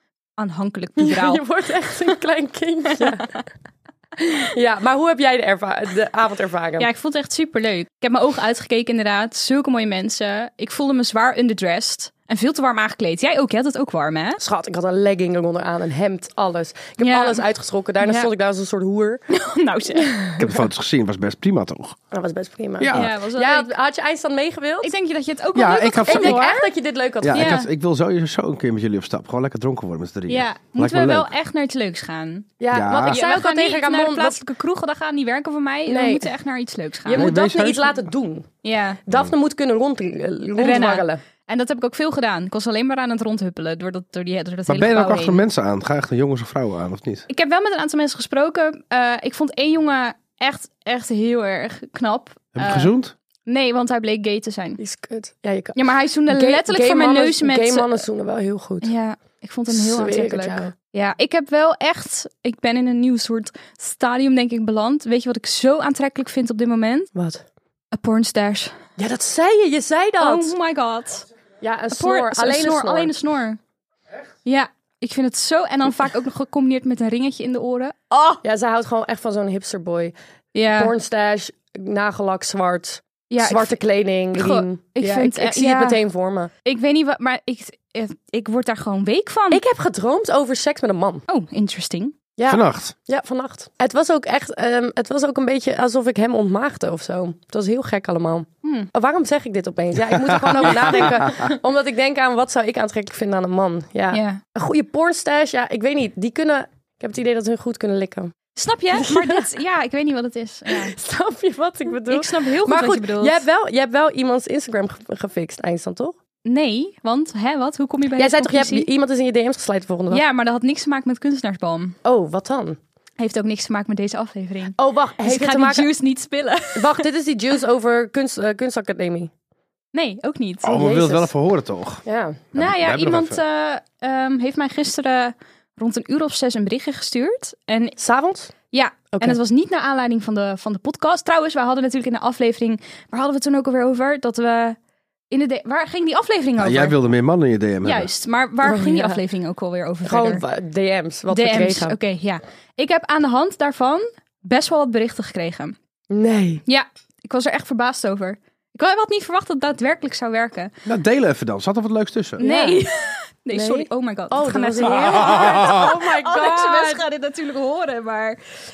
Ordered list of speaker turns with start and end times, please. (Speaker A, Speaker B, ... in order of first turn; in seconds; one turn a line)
Speaker A: 0.4-1.4
Speaker B: 1.0-3.4
Speaker B: 4.2-6.9
Speaker A: 6.8-14.4
Speaker B: 14.4-19.2
Speaker A: 17.0-17.4
Speaker A: 18.0-18.3
Speaker A: 19.3-20.1
Speaker B: 19.9-20.6
Speaker C: 20.4-22.0
Speaker B: 22.1-24.9
Speaker C: 22.8-23.1
Speaker A: 22.9-23.7
Speaker A: 24.8-26.7
Speaker C: 25.5-26.5
Speaker B: 26.1-27.6
Speaker C: 27.2-31.3
Speaker A: 27.3-27.7
Speaker A: 30.3-32.5
Speaker B: 32.6-34.4
Speaker C: 32.7-33.2
Speaker A: 33.1-37.3
Speaker B: 35.9-36.3
Speaker B: 37.1-38.5
Speaker C: 37.1-38.0
Speaker A: 38.6-39.0
Speaker B: 39.0-41.2
Speaker A: 40.6-45.4
Speaker C: 44.7-47.2
Speaker A: 47.3-52.9
Speaker C: 52.5-53.1
Speaker A: 53.5-54.8
Speaker B: 54.8-55.8
Speaker A: 55.7-58.0
Speaker B: 56.3-58.9
Speaker A: 58.8-67.1
Speaker B: 59.7-60.7
Speaker B: 67.1-67.4
Speaker A: 67.9-68.7
Speaker B: 69.0-70.5
Speaker A: 70.2-71.3
Speaker B: 71.6-73.1
Speaker A: 71.9-73.6
Speaker A: 74.4-78.4
Speaker B: 78.4-80.1
Speaker A: 80.5-80.9
Speaker B: 80.7-86.5
Speaker A: 83.3-83.8
Speaker A: 84.3-86.0
Speaker A: 86.6-89.6
Speaker B: 89.5-91.2
Speaker A: 91.3-92.2
Speaker B: 92.4-108.3
Speaker C: 92.5-92.9
Speaker A: 98.6-98.9
Speaker C: 100.1-101.3
Speaker A: 100.6-101.3
Speaker A: 104.1-104.4
Speaker A: 108.5-110.9
Speaker B: 108.9-109.5
Speaker B: 110.7-116.1
Speaker A: 112.1-113.4
Speaker A: 116.4-118.9
Speaker B: 118.2-120.2
Speaker A: 120.1-122.0
Speaker B: 122.0-122.8
Speaker A: 123.2-127.0
Speaker B: 124.8-125.9
Speaker B: 126.8-129.3
Speaker A: 129.9-130.8
Speaker C: 130.6-133.4
Speaker B: 130.7-131.3
Speaker B: 132.1-132.4
Speaker A: 132.5-137.9
Speaker B: 138.0-138.5
Speaker A: 138.7-144.8
Speaker B: 139.1-139.4
Speaker A: 145.3-147.0
Speaker C: 146.6-148.1
Speaker A: 147.8-150.4
Speaker B: 148.6-149.2
Speaker B: 150.0-152.0
Speaker A: 151.3-155.8
Speaker B: 156.1-156.6
Speaker A: 156.7-160.7
Speaker C: 160.8-162.4
Speaker B: 162.4-162.8
Speaker A: 162.4-168.4
Speaker B: 163.5-167.0